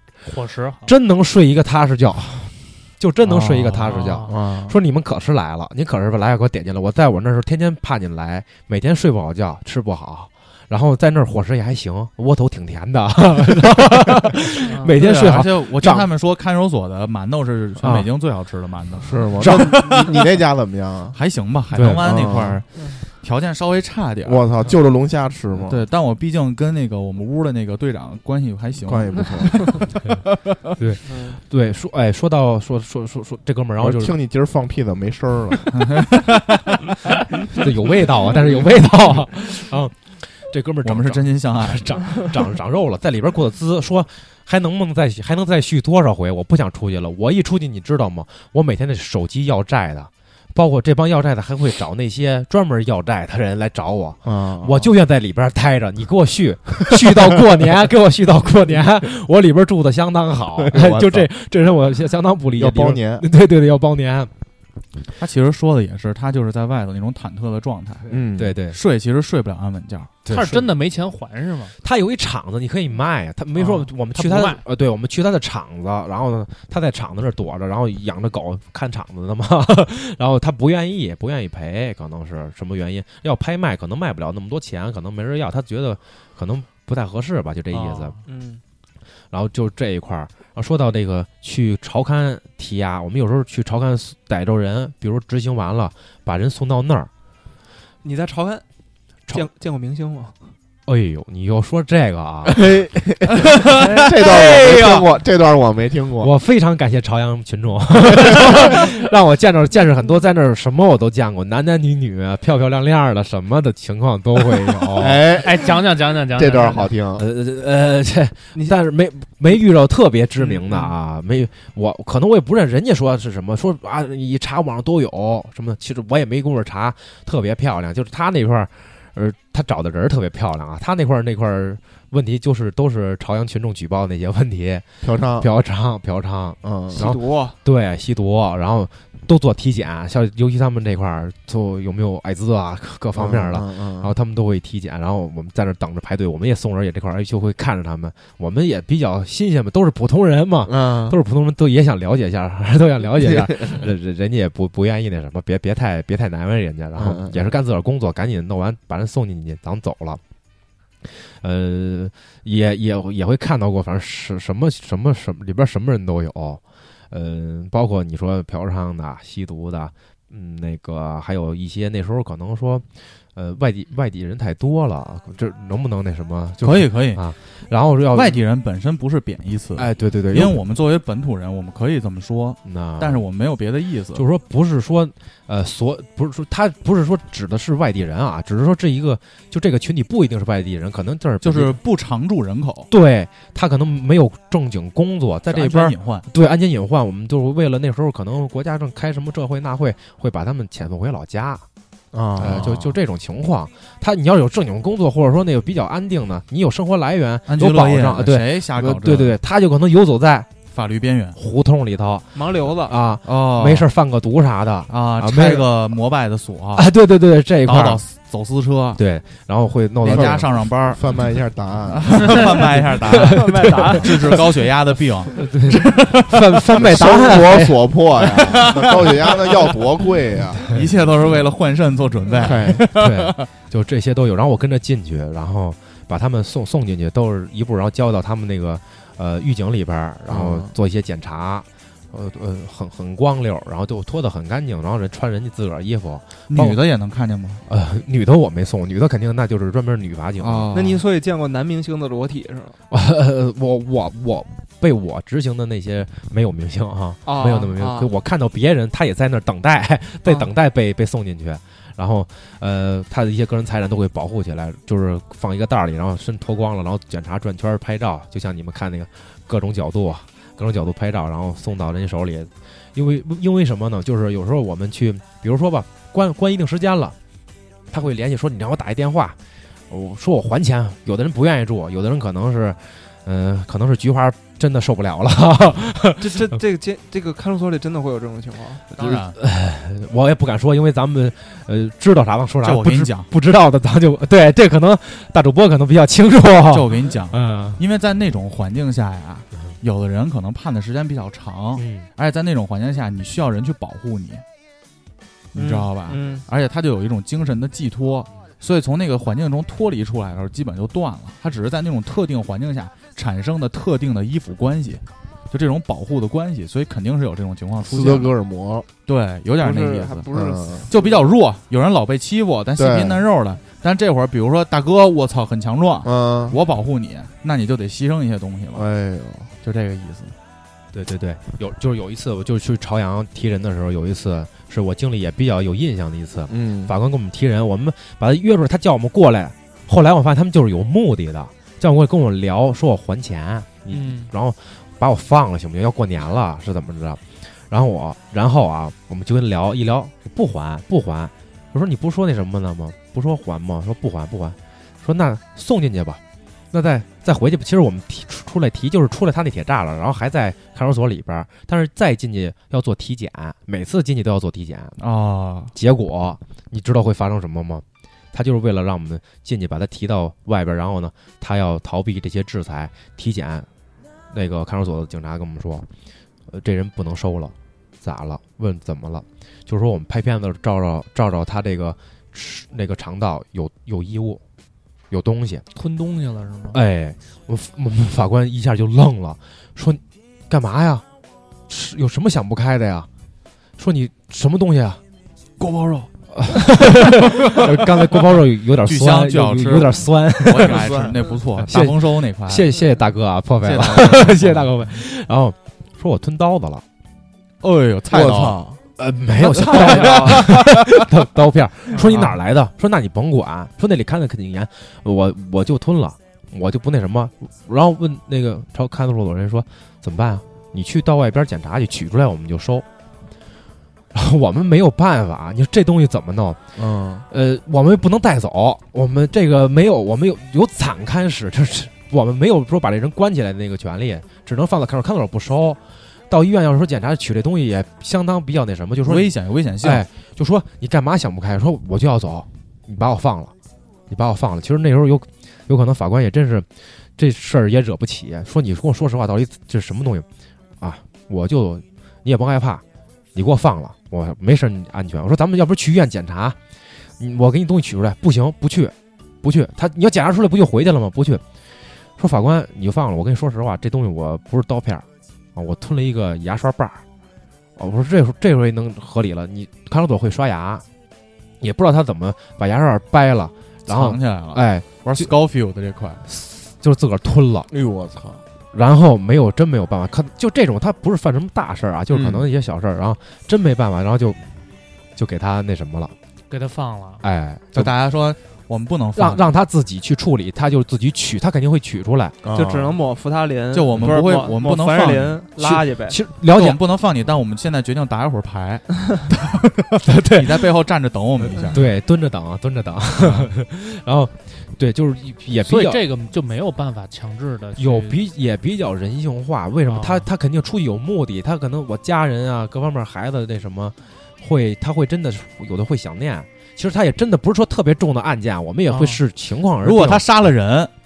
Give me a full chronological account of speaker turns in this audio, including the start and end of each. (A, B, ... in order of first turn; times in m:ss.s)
0:00.2-0:00.9 A
0:00.8-0:16.1 B
0:03.2-0:04.0 C
0:03.8-0:04.3 A
0:04.3-0:04.8 D
0:14.7-0:14.9 A
0:15.0-0:20.1 C
0:17.8-0:18.1 B
0:19.0-0:21.2 D
0:19.4-0:19.8 B
0:21.1-0:24.4 C
0:21.7-0:22.4 B
0:22.0-0:22.6 D
0:24.2-0:25.8 D
0:25.7-0:29.8 C
0:28.8-0:29.8 D
0:30.8-0:34.2 B
0:31.0-0:31.4 E
0:33.8-0:35.7 D
0:35.7-0:36.4 C
0:37.5-1:04.3 B
0:40.8-0:42.2 C
0:54.2-0:54.9 D
1:00.6-1:01.3 D
1:02.6-1:03.2 D
1:05.2-1:08.1 C
1:08.1-1:08.6 D
1:08.4-1:08.8 B
1:08.7-1:10.1 C
1:10.2-1:10.7 B
1:10.3-1:11.7 A
1:11.8-1:28.2 B
1:13.6-1:14.6 A
1:27.7-1:28.2 A
1:28.2-1:28.6 E
1:29.3-1:37.1 B
1:38.0-1:38.6 E
1:39.3-1:40.4 E
1:40.8-1:42.6 B
1:42.5-1:46.3 D
1:43.6-1:45.1 E
1:46.2-1:55.2 B
1:48.2-1:48.5 D
1:54.9-1:57.2 D
1:55.3-1:56.9 A
1:57.2-2:14.8 B
2:15.0-2:15.5 D
2:15.4-2:40.2 B
2:16.6-2:17.1 D
2:16.9-2:17.6 E
2:23.1-2:24.1 D
2:30.6-2:31.2 D
2:33.2-2:33.8 D
2:37.0-2:37.5 D
2:41.0-2:52.8 B
2:53.3-2:58.4 B
2:56.6-2:57.2 C
2:58.1-3:04.2 C
2:59.8-3:00.6 B
3:02.6-3:03.2 B
3:04.1-3:11.8 B
3:11.4-3:12.9 C
3:12.9-3:21.6 B
3:15.5-3:16.2 C
3:22.1-3:22.8 D
3:22.4-3:30.5 B
3:22.4-3:22.9 C
3:27.5-3:29.4 C
3:30.7-3:31.4 C
3:31.4-3:35.8 B
3:32.3-3:33.0 E
3:33.2-3:33.9 C
3:34.9-3:36.9 C
3:36.7-3:38.0 B
3:37.6-3:39.0 C
3:39.0-3:40.4 B
3:40.0-3:41.0 C
3:40.0-3:42.5 D
3:41.9-3:46.4 C
3:43.2-3:44.4 E
3:43.2-3:44.0 B
3:45.3-3:47.8 B
3:46.7-3:50.7 D
3:48.5-3:49.5 C
3:50.7-3:53.4 C
3:52.4-3:52.8 D
3:52.9-4:06.8 B
4:00.3-4:00.7 D
4:06.5-4:07.6 C
4:07.7-4:10.7 B
4:10.4-4:11.0 C
4:10.7-4:12.8 E
4:12.9-4:37.2 B
4:17.2-4:18.1 E
4:37.9-4:39.4 B
4:39.9-4:46.6 B
4:46.2-4:48.8 E
4:49.0-4:49.4 C
4:49.0-4:57.8 B
4:52.6-4:53.3 C
4:56.7-5:04.4 C
5:01.8-5:02.1 B
5:05.5-5:06.4 E
5:05.5-5:18.3 C
5:17.8-5:18.9 D
5:19.0-5:20.3 C
5:19.6-5:21.2 E
5:20.3-5:20.9 D
5:20.9-5:28.9 C
5:22.8-5:23.2 D
5:26.0-5:26.6 D
5:28.7-5:29.5 D
5:29.6-5:30.3 C
5:30.9-5:56.2 B
5:36.5-5:36.9 D
5:43.9-5:44.3 A
5:56.7-6:05.0 B
6:05.0-6:05.7 C
6:05.7-6:13.7 B
6:14.3-6:15.8 B
6:16.5-6:24.4 B
6:25.1-6:25.6 B
6:25.7-6:26.8 A
6:26.7-6:31.0 B
6:31.7-6:33.1 B
6:33.8-6:35.0 B
6:35.6-6:36.1 C
6:36.3-6:40.9 B
6:38.8-6:42.7 C
6:40.8-6:41.2 E
6:41.6-6:46.8 B
6:43.6-6:44.7 C
6:47.6-6:48.6 C
6:48.1-6:48.7 D
6:49.0-7:02.8 B
6:49.6-6:50.5 E
6:49.7-6:50.2 C
6:51.9-6:52.2 A
6:52.1-6:52.3 C
7:04.1-7:06.6 B
7:06.8-7:07.2 D
7:07.3-7:23.5 B
7:19.0-7:20.0 C
7:24.1-7:30.2 B
7:30.8-7:32.8 B
7:33.3-7:36.6 B
7:37.2-7:41.4 B
7:42.2-7:47.0 B
7:47.8-7:50.8 B
7:51.6-7:55.3 B
7:53.9-7:56.2 C
7:56.2-7:57.7 B
7:57.7-7:58.4 D
7:58.7-8:04.4 B
8:02.1-8:02.4 D
8:05.2-8:06.1 B
8:06.5-8:07.2 A
8:07.2-8:07.9 B
8:07.7-8:09.5 C
8:09.2-8:12.4 B
8:12.4-8:13.0 D
8:12.5-8:16.2 E
8:13.7-8:15.4 C
8:15.6-8:16.8 B
8:16.5-8:21.8 C
8:20.0-8:20.6 B
8:21.7-8:26.0 B
8:25.6-8:28.2 A
8:27.8-8:40.2 B
8:29.8-8:30.3 A
8:38.9-8:39.2 A
8:39.8-8:40.9 C